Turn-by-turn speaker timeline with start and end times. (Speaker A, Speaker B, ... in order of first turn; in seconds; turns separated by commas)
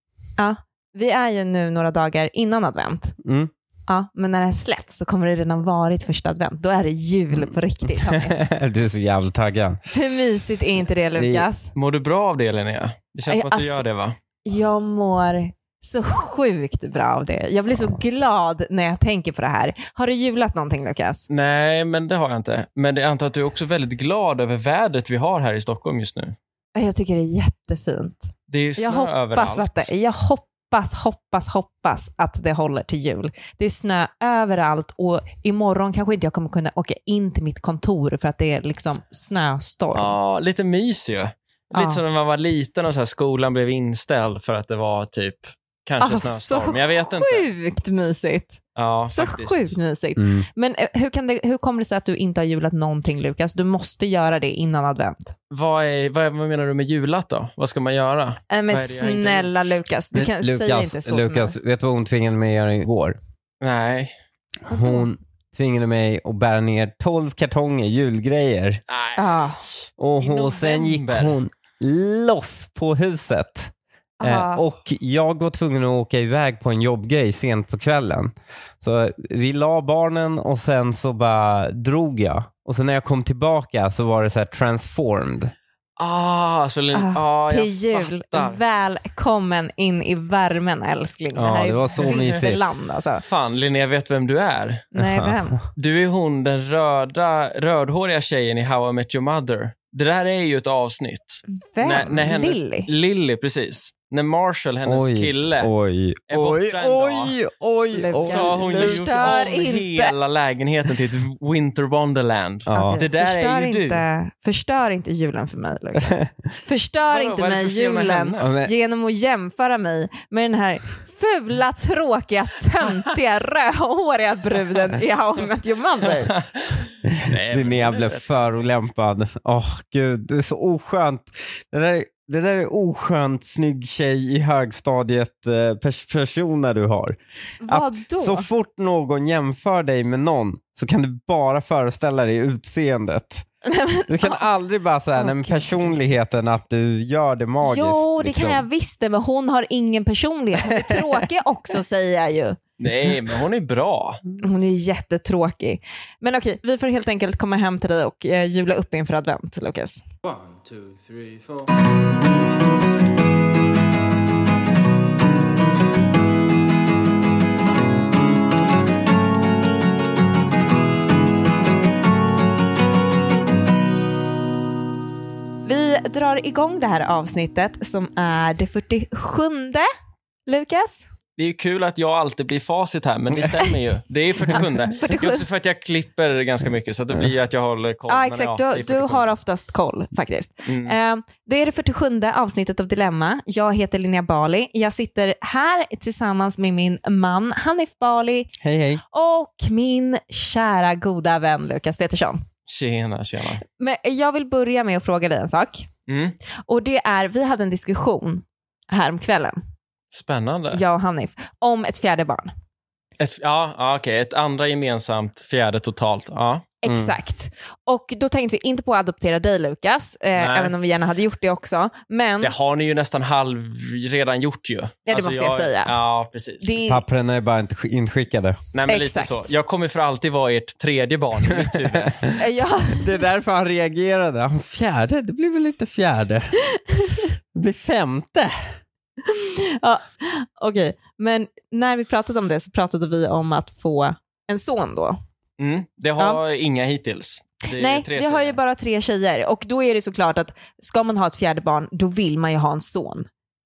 Speaker A: 0.4-3.1, Speaker B: 3.2-3.5, Speaker A: 3.9-8.3, Speaker B: 7.3-9.8, Speaker A: 9.9-11.7, Speaker B: 11.2-11.5, Speaker C: 11.7-14.2, Speaker A: 13.3-13.8, Speaker A: 14.4-21.3, Speaker C: 21.3-26.4, Speaker A: 26.8-40.1, Speaker C: 28.5-29.9, Speaker C: 39.9-47.5, Speaker A: 41.7-42.0, Speaker A: 46.0-55.4, Speaker C: 48.8-49.8, Speaker B: 50.2-50.4, Speaker C: 55.5-59.5, Speaker A: 58.5-61.5, Speaker B: 60.1-63.1, Speaker C: 63.6-64.1, Speaker A: 64.7-65.0, Speaker B: 64.7-68.8, Speaker C: 68.9-71.4, Speaker A: 69.2-69.6, Speaker B: 70.0-73.7, Speaker A: 74.2-74.6, Speaker B: 74.2-85.5, Speaker C: 86.0-88.6, Speaker A: 86.9-93.2, Speaker B: 91.3-92.6, Speaker C: 92.0-92.3, Speaker C: 93.2-94.9, Speaker A: 94.9-95.6, Speaker B: 95.0-95.3, Speaker C: 95.7-105.7, Speaker A: 101.5-102.9, Speaker B: 104.8-109.4, Speaker C: 106.3-107.3, Speaker A: 107.9-110.1, Speaker C: 108.2-114.0, Speaker B: 112.7-113.0, Speaker A: 112.7-126.3, Speaker C: 117.1-118.5, Speaker B: 118.4-118.7, Speaker C: 126.4-128.5, Speaker B: 127.0-143.4, Speaker A: 137.6-138.5, Speaker A: 143.7-144.4, Speaker B: 144.1-148.6, Speaker A: 145.1-146.0, Speaker A: 147.6-152.6, Speaker C: 152.8-154.2, Speaker A: 154.4-160.0, Speaker C: 160.2-161.7, Speaker A: 175.6-179.9, Speaker A: 180.4-181.0, Speaker C: 181.4-189.3, Speaker A: 184.4-185.4, Speaker A: 188.1-198.5, Speaker C: 190.7-190.9, Speaker B: 198.6-199.0, Speaker A: 199.1-202.4, Speaker C: 202.7-203.6, Speaker A: 203.8-205.8, Speaker C: 206.1-206.3, Speaker A: 206.7-209.6, Speaker C: 210.1-210.8, Speaker A: 210.7-212.5, Speaker C: 213.2-216.6, Speaker A: 216.8-222.5, Speaker B: 216.9-217.1, Speaker C: 220.4-220.7, Speaker C: 222.4-226.7, Speaker A: 225.1-225.9, Speaker A: 226.6-227.0, Speaker B: 226.9-228.6, Speaker C: 228.7-232.2, Speaker A: 228.9-229.5, Speaker B: 231.5-232.3, Speaker A: 232.3-233.2, Speaker B: 232.9-236.6, Speaker A: 236.7-237.3, Speaker B: 237.5-238.5, Speaker A: 239.2-245.2, Speaker C: 245.6-248.6, Speaker A: 247.7-253.3